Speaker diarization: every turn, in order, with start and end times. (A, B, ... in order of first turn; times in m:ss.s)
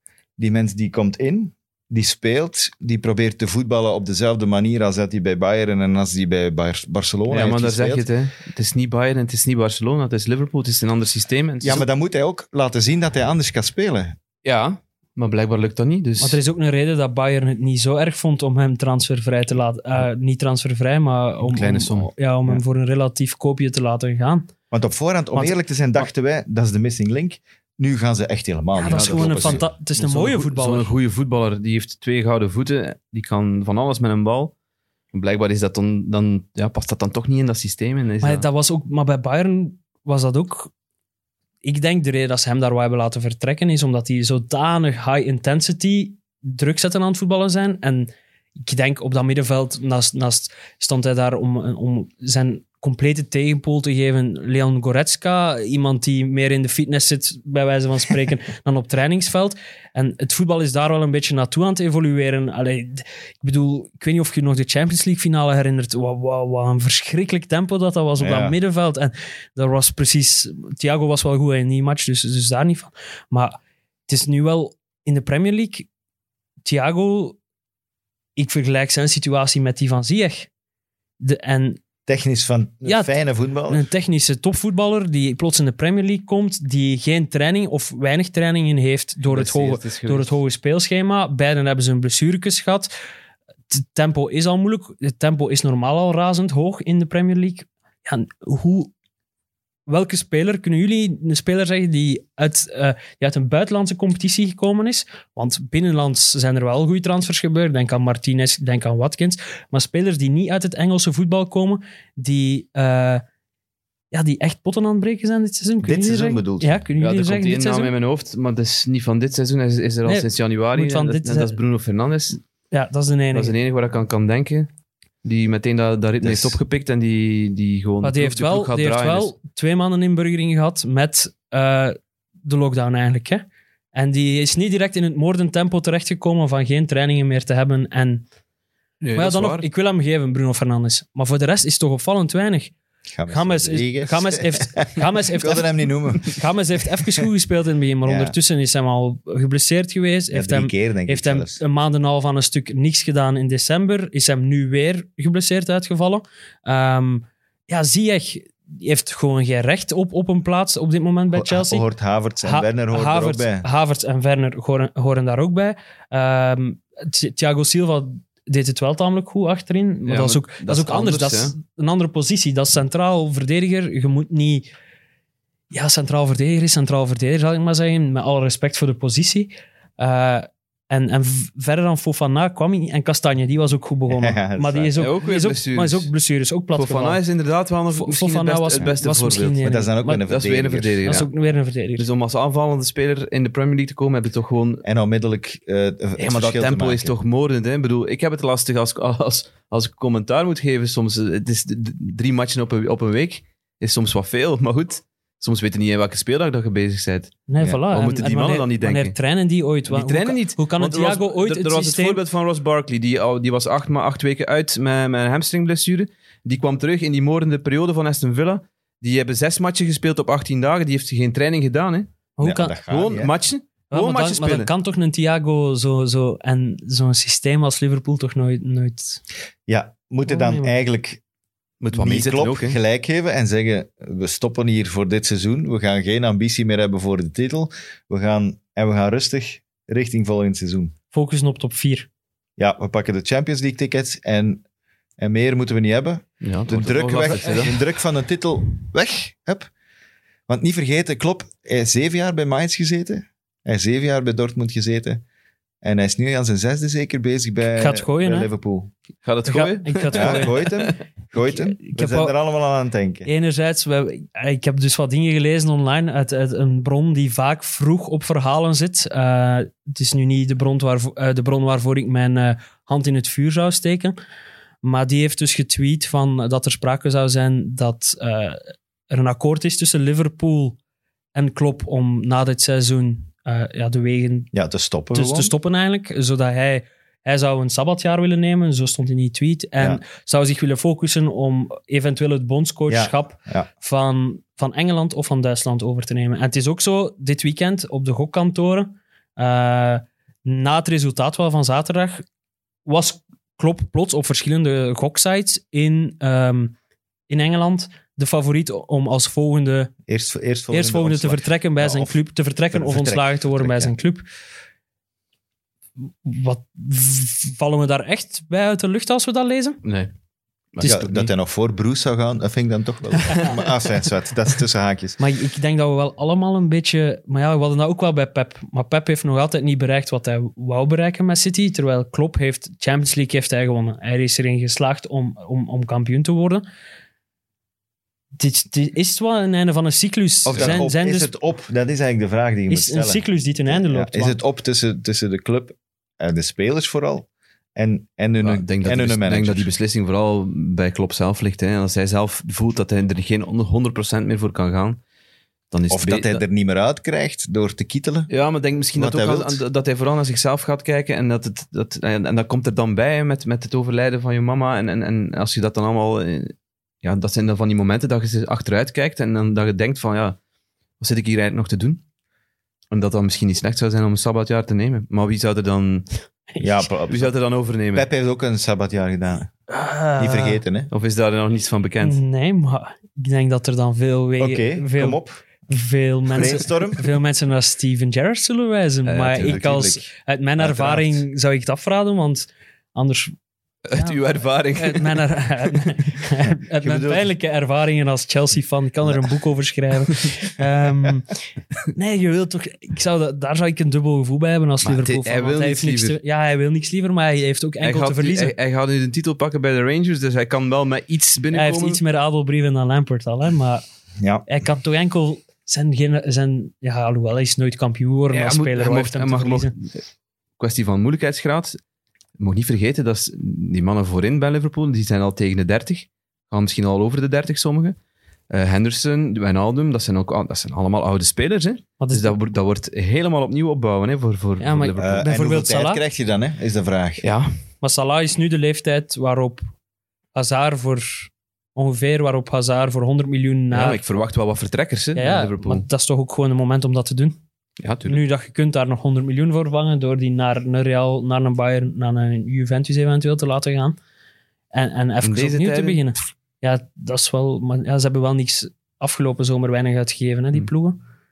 0:00.4-0:08.0 A
0:07.3-0:11.8 B
0:11.6-0:14.2 A
0:14.4-0:16.4 B
0:16.2-0:24.5 C
0:21.4-0:22.1 B
0:24.7-0:29.6 A
0:25.3-0:26.0 C
0:28.7-0:30.9 C
0:28.9-0:34.5 B
0:35.1-0:38.4 B
0:38.2-0:40.7 C
0:41.6-1:15.9 C
1:08.2-1:08.6 A
1:16.6-1:17.4 C
1:18.4-1:20.5 C
1:21.2-1:21.8 C
1:22.1-1:23.9 A
1:22.8-1:23.1 C
1:23.7-1:32.9 C
1:29.3-1:30.4 B
1:33.7-1:38.9 C
1:39.9-1:53.2 C
1:54.1-1:57.9 C
1:55.8-1:56.8 A
1:57.0-2:02.4 B
2:00.0-2:01.6 C
2:02.7-2:03.5 C
2:03.3-2:04.7 B
2:05.2-2:09.3 B
2:06.2-2:06.6 A
2:08.0-2:18.2 C
2:19.0-2:19.6 B
2:19.2-2:22.7 C
2:23.1-2:26.4 A
2:23.3-2:41.9 C
2:28.0-2:28.3 A
2:30.3-2:31.6 A
2:41.3-2:43.7 A
2:42.4-2:54.7 C
2:50.0-2:51.5 B
2:55.7-3:07.2 C
3:04.1-3:05.0 A
3:05.0-3:06.1 B
3:06.7-3:09.6 B
3:07.9-3:10.2 C
3:09.6-3:11.1 A
3:10.2-3:11.3 B
3:11.0-3:12.0 C
3:12.0-3:14.8 B
3:14.8-3:17.2 A
3:16.2-3:29.1 B
3:27.5-3:32.2 C
3:29.9-3:42.1 B
3:42.4-3:42.8 C
3:42.4-3:43.3 A
3:42.9-3:44.7 B
3:43.9-3:49.2 C
3:49.7-3:51.2 A
3:50.3-3:50.7 C
3:51.8-3:52.8 B
3:51.9-4:00.9 A
4:01.1-4:02.1 C
4:02.6-4:04.6 A
4:05.2-4:09.7 A
4:06.4-4:07.8 B
4:10.5-4:15.2 A
4:15.8-4:18.9 A
4:17.7-4:18.5 C
4:19.2-4:21.0 B
4:19.4-4:20.7 C
4:20.1-4:23.3 A
4:21.4-4:22.3 C
4:23.2-4:34.2 C
4:34.8-4:40.8 C
4:41.3-4:44.5 C
4:44.5-4:45.5 A
4:45.1-5:02.2 C
4:52.9-4:53.7 A
5:02.8-5:06.7 C
5:07.3-5:09.9 C
5:10.1-5:12.2 A
5:10.7-5:14.2 C
5:12.7-5:13.9 A
5:16.1-5:19.8 C
5:19.8-5:20.1 B
5:20.7-5:21.3 B
5:20.8-5:25.2 A
5:25.2-5:36.6 C
5:38.4-5:41.3 C
5:40.4-5:49.7 A
5:42.7-5:44.4 C
5:48.4-5:55.0 B
5:55.7-5:56.4 B
5:55.9-5:58.3 A
5:58.3-6:10.4 B
5:58.9-5:59.6 A
6:11.0-6:12.0 B
6:12.9-6:16.0 B
6:16.6-6:17.3 A
6:17.1-6:18.1 B
6:17.9-6:19.5 A
6:19.7-6:20.6 C
6:20.2-6:20.9 A
6:20.9-6:22.2 B
6:22.0-6:33.3 C
6:24.4-6:25.4 A
6:26.3-6:27.1 A
6:29.1-6:29.6 B
6:29.2-6:30.0 A
6:30.6-6:31.2 A
6:33.8-6:35.2 B
6:33.9-6:34.2 C
6:34.8-6:41.3 C
6:36.8-6:37.2 B
6:41.9-6:48.5 C
6:44.8-6:46.2 B
6:47.8-6:52.0 B
6:51.5-6:53.8 C
6:54.2-6:54.4 A
6:54.4-6:59.7 C
6:58.3-7:00.0 B
7:00.6-7:01.8 B
7:02.4-7:08.0 B
7:08.5-7:15.2 B
7:12.0-7:12.3 C
7:14.6-7:16.0 C
7:15.0-7:17.3 A
7:17.2-7:17.5 B
7:17.8-7:19.6 C
7:20.3-7:24.0 C
7:23.7-7:25.8 B
7:25.1-7:27.4 C
7:27.8-7:28.2 B
7:28.0-7:34.0 C
7:34.7-7:41.0 C
7:35.2-7:36.0 B